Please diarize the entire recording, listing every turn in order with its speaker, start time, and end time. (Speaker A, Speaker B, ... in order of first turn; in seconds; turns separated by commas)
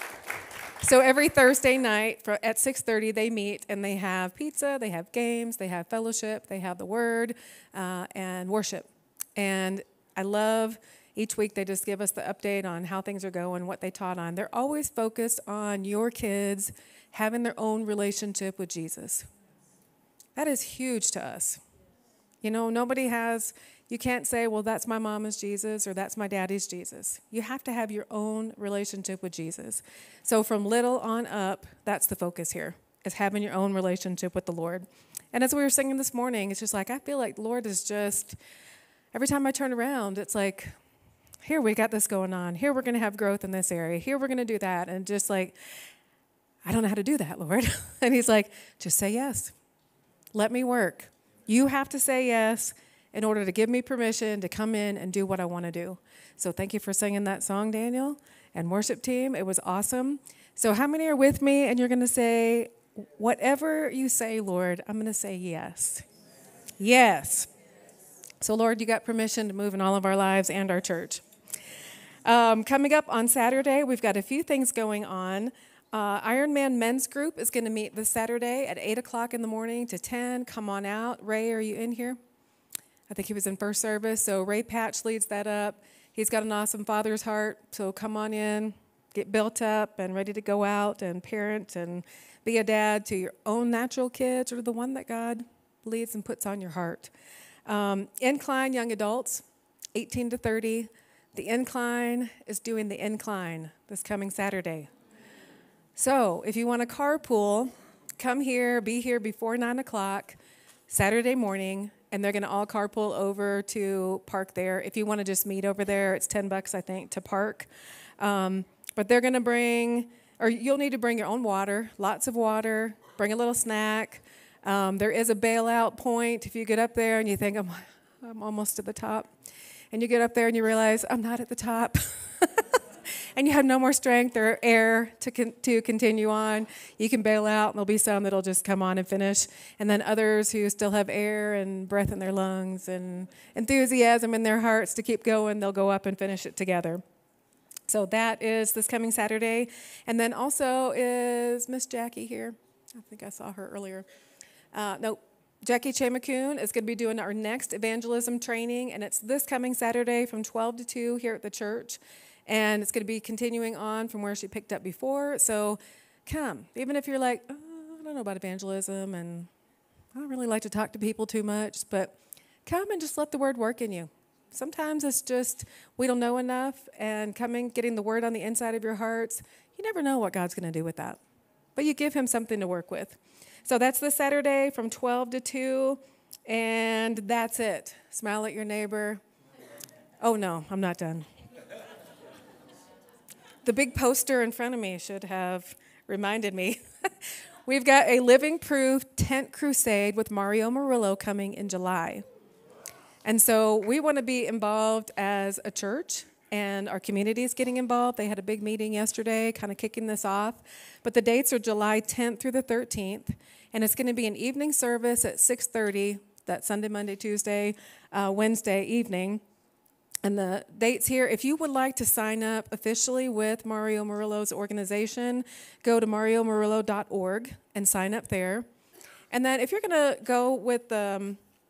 Speaker A: 0.8-19.3, Speaker A: 20.4-21.6, Speaker A: 22.4-38.4, Speaker A: 39.1-40.7, Speaker A: 41.4-45.5, Speaker A: 46.6-49.5, Speaker A: 50.3-66.0, Speaker A: 66.8-67.5, Speaker A: 68.4-71.2, Speaker A: 72.2-82.2, Speaker A: 83.1-97.1, Speaker A: 97.7-99.4, Speaker A: 100.0-104.9, Speaker A: 106.0-110.4, Speaker A: 110.9-117.7, Speaker A: 118.2-129.3, Speaker A: 129.9-132.8, Speaker A: 133.4-147.0, Speaker A: 147.9-154.1, Speaker A: 154.7-169.5, Speaker A: 170.2-172.1, Speaker A: 172.7-181.2, Speaker A: 181.8-189.2, Speaker A: 190.2-191.3, Speaker A: 193.7-196.8, Speaker A: 197.7-202.2, Speaker A: 203.2-219.4, Speaker A: 220.2-228.7, Speaker A: 229.3-231.4